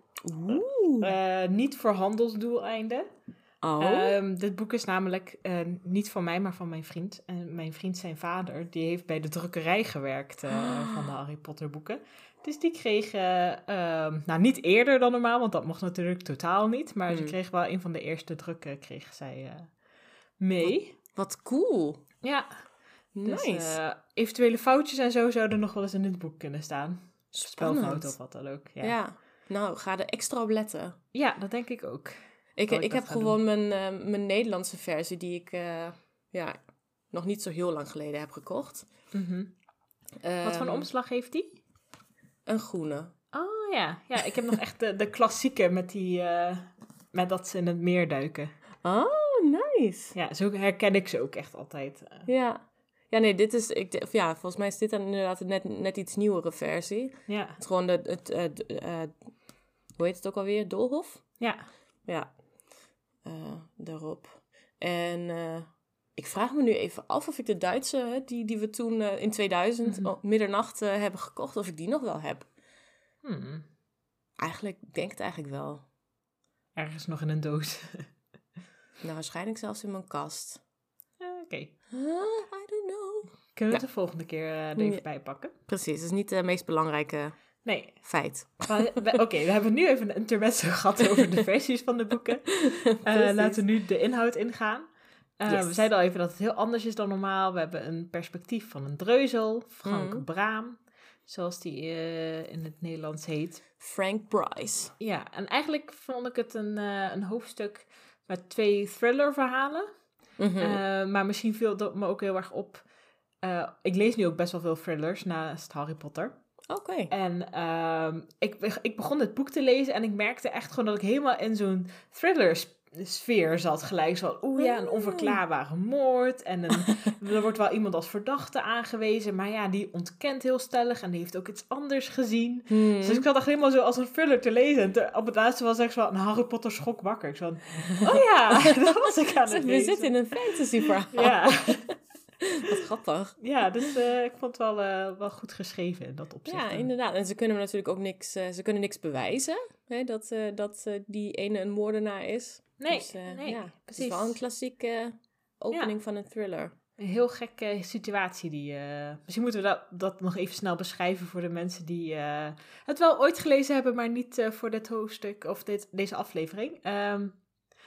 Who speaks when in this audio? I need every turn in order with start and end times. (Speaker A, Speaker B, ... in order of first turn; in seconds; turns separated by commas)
Speaker A: 0.2-1.1, Speaker B: 1.0-3.1, Speaker A: 3.6-4.2, Speaker B: 3.8-19.8, Speaker A: 10.5-11.2, Speaker A: 17.1-17.4, Speaker B: 20.4-20.9, Speaker A: 20.6-22.1, Speaker B: 22.2-29.0, Speaker A: 23.1-23.8, Speaker A: 27.3-28.2, Speaker A: 28.8-31.0, Speaker B: 31.1-33.4, Speaker A: 32.5-38.9, Speaker B: 39.1-39.6, Speaker A: 40.2-40.9, Speaker B: 40.4-41.6, Speaker A: 42.5-43.1, Speaker B: 43.3-48.5, Speaker A: 48.8-50.1, Speaker B: 50.1-52.3, Speaker A: 52.2-61.5, Speaker B: 57.3-57.6, Speaker B: 61.4-61.7, Speaker A: 62.0-62.4, Speaker A: 63.2-72.5, Speaker B: 69.8-70.1, Speaker B: 73.2-73.7, Speaker A: 74.4-75.8, Speaker B: 76.8-78.1, Speaker A: 79.0-80.6, Speaker B: 81.2-81.7, Speaker A: 81.9-83.8, Speaker B: 83.5-85.5, Speaker A: 84.7-88.8, Speaker B: 87.6-103.6, Speaker A: 93.0-93.7, Speaker A: 95.5-95.8, Speaker A: 99.8-100.2, Speaker A: 103.8-104.9, Speaker B: 105.0-112.9, Speaker A: 110.4-110.8, Speaker B: 113.4-116.4, Speaker A: 116.7-117.1, Speaker B: 117.1-142.1, Speaker A: 124.6-125.4, Speaker A: 132.7-133.2, Speaker A: 138.1-138.9, Speaker A: 139.4-141.9, Speaker A: 142.6-143.6, Speaker B: 143.4-146.9, Speaker A: 146.4-156.7, Speaker B: 152.8-154.4, Speaker B: 157.0-167.5